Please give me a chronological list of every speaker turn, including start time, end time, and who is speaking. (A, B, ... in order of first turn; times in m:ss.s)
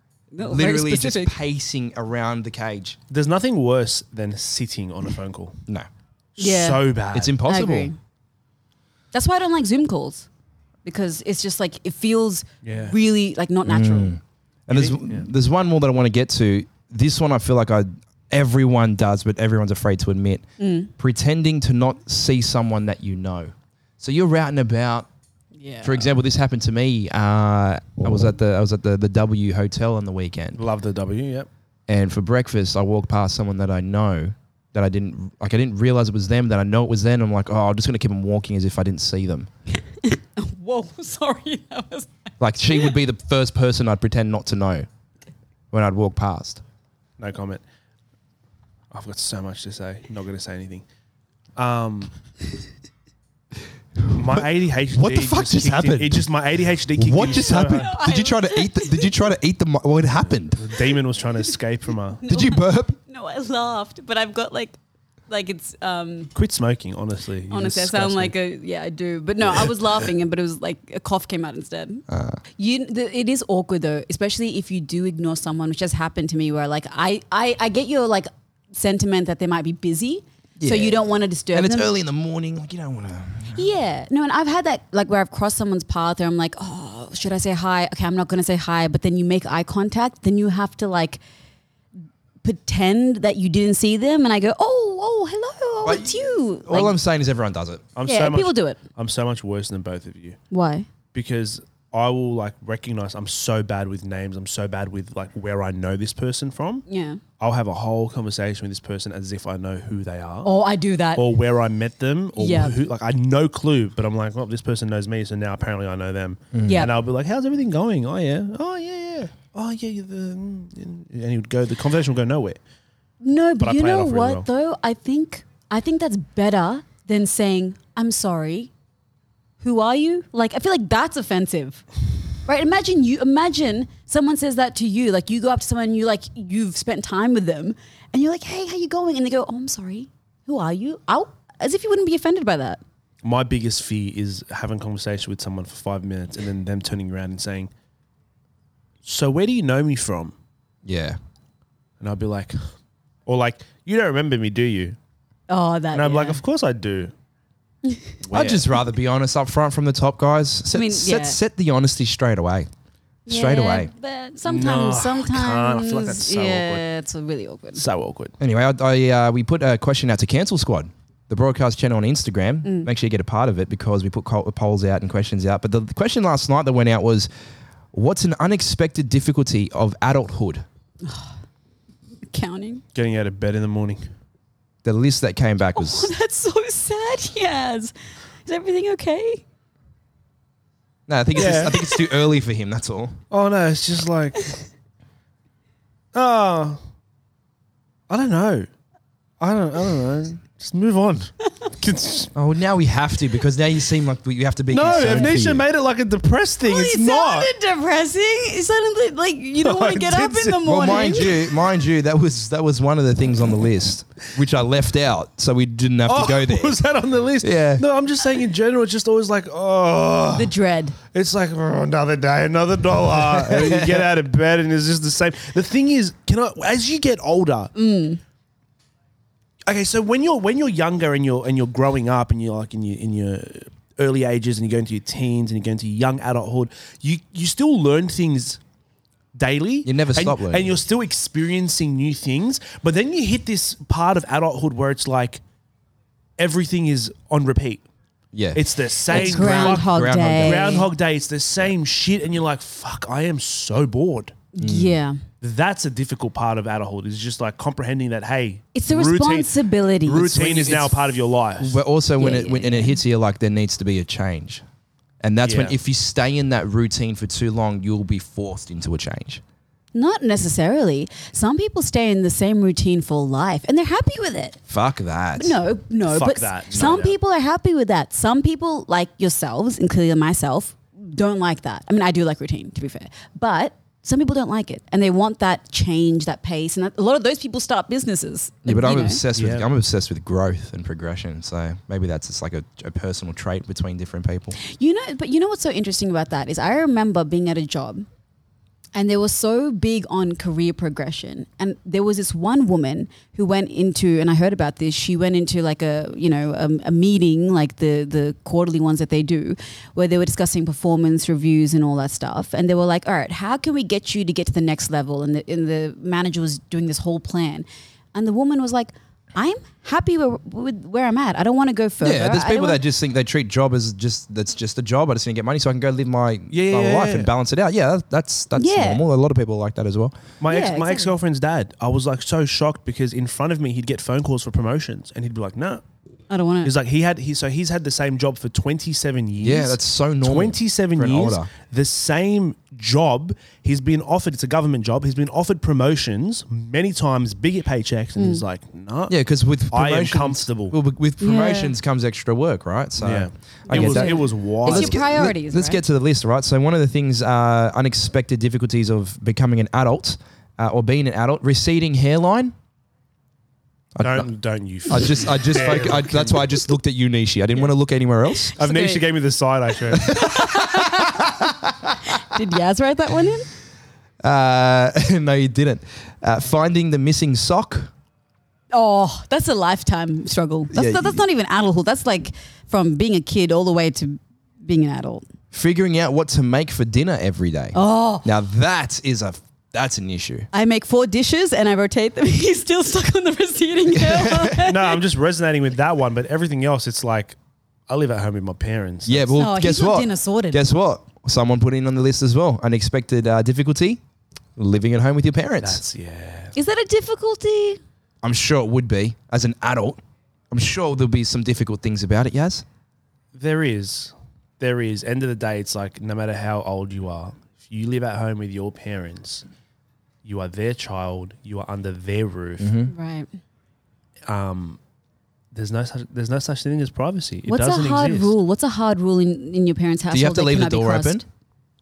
0:00.3-0:01.3 A
0:00.4-0:03.0 B
0:03.1-0:05.6 C
0:06.4-0:07.4 C
0:06.4-0:06.8 A
0:07.1-0:07.9 B
0:07.4-0:08.0 A
0:09.1-0:10.3 A
0:10.8-0:14.1 A
0:12.6-0:13.0 C
0:13.6-0:20.4 B
0:14.7-0:15.3 C
0:20.6-0:20.9 A
0:21.0-0:25.1 B
0:25.6-0:26.1 A
0:25.8-0:30.6 B
0:30.6-0:31.5 C
0:31.9-0:39.5 B
0:40.0-0:42.9 A
0:42.4-0:44.9 B
0:45.7-0:46.6 B
0:47.2-0:47.6 C
0:48.9-0:50.8 C
0:51.6-0:52.1 C
0:54.1-0:56.3 B
0:54.1-0:57.9 C
0:57.0-1:00.8 B
0:57.3-0:59.1 A
1:00.6-1:02.2 C
1:02.2-1:04.8 A
1:02.3-1:03.0 B
1:05.3-1:06.3 A
1:06.3-1:08.3 C
1:07.5-1:12.0 A
1:12.1-1:12.4 B
1:12.6-1:21.9 A
1:20.6-1:23.6 B
1:23.5-1:31.2 A
1:32.4-1:37.0 A
1:35.8-1:37.8 B
1:38.0-1:40.4 C
1:38.0-1:38.8 A
1:40.5-1:40.9 A
1:41.1-1:46.8 C
1:46.9-1:47.2 A
1:47.4-1:50.5 C
1:50.4-1:51.3 A
1:51.2-2:02.6 C
1:52.4-1:52.8 A
1:56.5-1:56.8 B
1:56.6-1:56.9 A
2:03.2-2:08.7 A
2:03.6-2:04.5 C
2:09.6-2:11.8 A
2:12.4-2:22.8 A
2:23.2-2:27.7 C
2:29.0-2:30.3 C
2:30.8-2:31.2 B
2:32.0-2:32.6 C
2:33.3-2:35.0 C
2:35.5-2:36.4 A
2:35.9-2:37.1 C
2:37.9-2:38.1 A
2:38.2-2:38.8 C
2:38.3-2:42.7 B
2:40.7-2:41.4 A
2:43.3-2:47.8 A
2:43.3-2:43.9 B
2:44.4-2:46.8 C
2:47.7-2:48.3 C
2:48.4-2:57.3 B
2:52.6-2:52.9 A
2:57.9-3:00.6 B
3:01.0-3:01.3 A
3:02.3-3:02.8 A
3:02.9-3:04.0 C
3:04.8-3:06.1 B
3:05.7-3:07.9 A
3:08.4-3:09.4 A
3:11.1-3:13.2 B
3:11.4-3:11.8 C
3:13.3-3:14.5 C
3:16.1-3:16.8 C
3:18.1-3:18.7 C
3:19.4-3:22.3 C
3:22.3-3:25.6 B
3:24.7-3:27.5 C
3:24.9-3:25.2 A
3:26.6-3:31.3 A
3:29.6-3:31.1 C
3:30.6-3:36.8 B
3:36.0-3:40.5 C
3:37.4-3:37.8 B
3:40.4-3:41.0 A
3:41.1-3:47.7 C
3:43.2-3:44.1 B
3:47.7-3:48.2 A
3:49.7-3:58.6 C
3:59.3-4:05.4 C
3:59.8-4:00.8 B
4:06.4-4:07.8 C
4:08.3-4:10.8 B
4:08.5-4:14.4 C
4:09.1-4:10.8 A
4:14.5-4:15.2 A
4:14.6-4:14.9 B
4:15.4-4:19.5 C
4:18.7-4:20.8 A
4:20.0-4:21.8 C
4:21.6-4:24.6 B
4:22.2-4:23.0 A
4:25.2-4:29.4 B
4:25.4-4:25.7 C
4:29.9-4:34.6 A
4:34.7-4:35.6 B
4:35.4-4:49.2 A
4:36.1-4:37.1 C
4:48.6-4:54.6 B
4:49.3-4:49.6 C
4:54.6-4:58.0 A
4:58.9-5:22.8 A
5:22.0-5:30.2 B
5:26.5-5:27.3 C
5:28.6-5:29.0 A
5:30.4-5:35.8 C
5:30.5-5:31.1 A
5:36.3-5:36.7 A
5:36.6-5:50.8 C
5:39.4-5:41.5 B
5:48.2-5:48.4 A
5:49.1-6:02.5 B
5:51.2-5:51.7 A
5:53.0-5:55.0 C
5:53.7-5:55.8 A
6:04.0-6:04.3 B
6:04.0-6:06.6 C
6:04.9-6:08.5 B
6:08.5-6:09.0 A
6:08.6-6:10.2 C
6:09.9-6:12.0 B
6:10.0-6:11.4 A
6:12.0-6:13.5 A
6:14.2-6:17.9 B
6:18.7-6:25.2 A
6:20.7-6:21.2 B
6:25.5-6:30.5 B
6:27.7-6:28.2 A
6:30.5-6:35.0 A
6:33.9-6:34.6 B
6:34.6-6:37.4 C
6:37.9-6:39.3 C
6:39.1-6:44.0 B
6:39.4-6:40.6 A
6:44.6-6:45.8 B
6:45.6-6:46.5 C
6:46.5-6:47.8 A
6:48.2-6:52.6 B
6:53.3-6:59.4 C
7:00.2-7:02.7 C
7:02.6-7:02.9 B
7:02.9-7:03.3 A
7:04.3-7:04.8 C
7:05.5-7:08.4 C
7:07.4-7:11.2 A
7:10.1-7:11.2 B